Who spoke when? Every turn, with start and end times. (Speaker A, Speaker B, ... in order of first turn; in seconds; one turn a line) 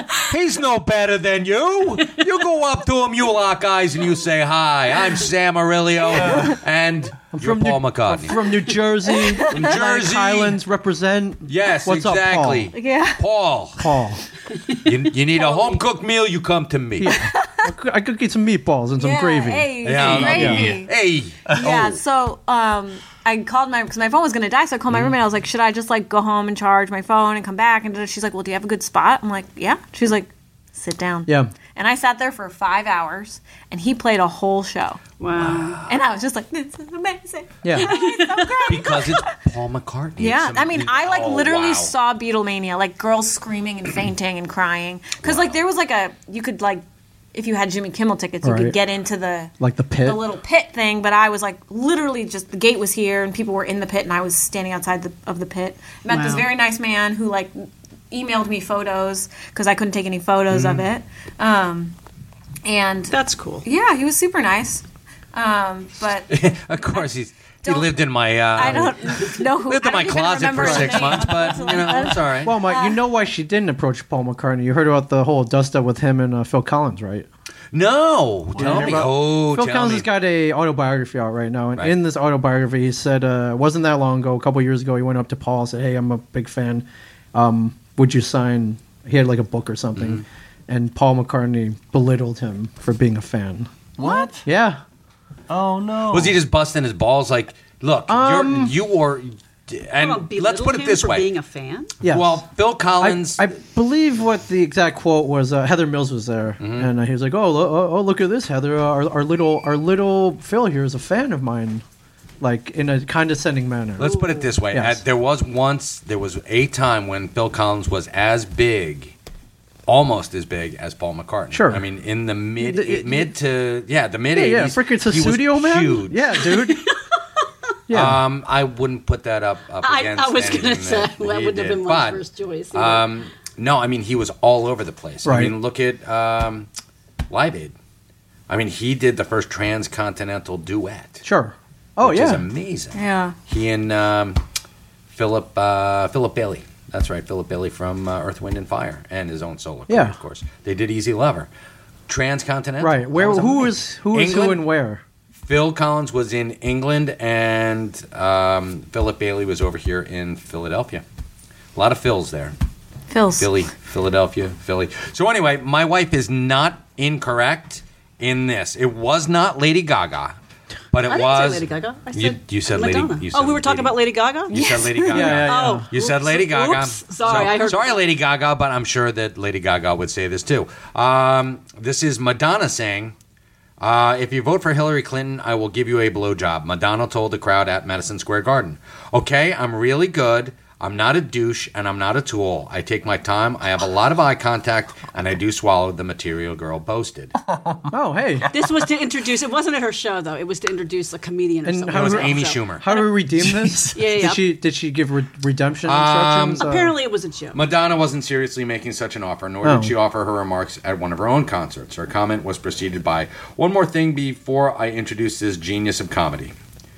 Speaker A: 0.3-8.4
Speaker B: 7.3-12.7
Speaker C: 9.3-9.6
Speaker A: 9.5-10.6
Speaker A: 11.5-13.9
Speaker C: 12.7-13.2
Speaker B: 13.8-14.2
Speaker A: 14.8-17.2
Speaker C: 15.5-15.8
Speaker B: 17.0-19.7
Speaker C: 17.1-17.7
Speaker C: 19.0-20.9
Speaker A: 19.8-22.0
Speaker D: 19.9-20.8
Speaker B: 20.3-20.6
Speaker C: 21.5-35.0
Speaker E: 35.2-35.8
Speaker A: 35.4-35.9
Speaker C: 35.9-39.4
Speaker B: 37.6-37.9
Speaker E: 37.8-38.8
Speaker A: 38.7-41.9
Speaker C: 40.2-46.8
Speaker A: 45.2-45.6
Speaker C: 47.3-62.0
Speaker B: 48.4-48.8
Speaker B: 49.6-50.2
Speaker E: 56.1-56.5
Speaker A: 60.5-60.9
Speaker C: 62.6-66.3
Speaker E: 63.1-63.7
Speaker A: 66.3-72.5
Speaker C: 67.6-73.0
Speaker B: 68.6-68.9
Speaker B: 70.6-71.0
Speaker E: 70.9-72.0
Speaker B: 72.4-77.3
Speaker A: 77.7-80.1
Speaker B: 78.6-93.7
Speaker A: 90.0-90.2
Speaker D: 94.0-94.5
Speaker B: 94.4-94.8
Speaker D: 95.5-96.4
Speaker A: 96.1-101.3
Speaker B: 98.1-98.8
Speaker E: 100.0-101.9
Speaker B: 102.0-102.5
Speaker A: 102.0-103.5
Speaker B: 103.0-111.8
Speaker A: 106.6-106.9
Speaker B: 112.4-114.1
Speaker A: 114.0-119.1
Speaker E: 114.0-114.5
Speaker B: 114.7-115.0
Speaker A: 119.9-126.5
Speaker B: 121.5-121.9
Speaker B: 122.6-123.3
Speaker B: 124.3-126.9
Speaker E: 126.6-127.0
Speaker B: 127.9-128.2
Speaker A: 127.9-136.7
Speaker E: 129.8-133.1
Speaker B: 135.2-135.6
Speaker A: 137.3-137.8
Speaker A: 138.5-141.2
Speaker B: 141.2-142.4
Speaker A: 142.0-144.4
Speaker C: 142.9-143.4
Speaker A: 145.1-151.5
Speaker B: 149.9-150.2
Speaker A: 152.1-154.7
Speaker B: 152.8-155.0
Speaker A: 155.4-161.0
Speaker A: 161.8-162.6
Speaker C: 163.1-163.6
Speaker A: 163.4-170.4
Speaker A: 170.9-174.0
Speaker E: 171.1-178.0
Speaker A: 174.5-183.2
Speaker C: 174.5-175.4
Speaker B: 175.1-175.9
Speaker A: 183.8-197.3
Speaker D: 197.5-199.0
Speaker B: 197.9-198.5
Speaker E: 198.5-203.1
Speaker B: 201.6-207.0
Speaker A: 201.9-202.8
Speaker D: 203.4-204.0
Speaker E: 203.9-204.4
Speaker A: 205.9-206.7
Speaker E: 206.6-207.6
Speaker A: 207.5-216.6
Speaker B: 209.6-209.9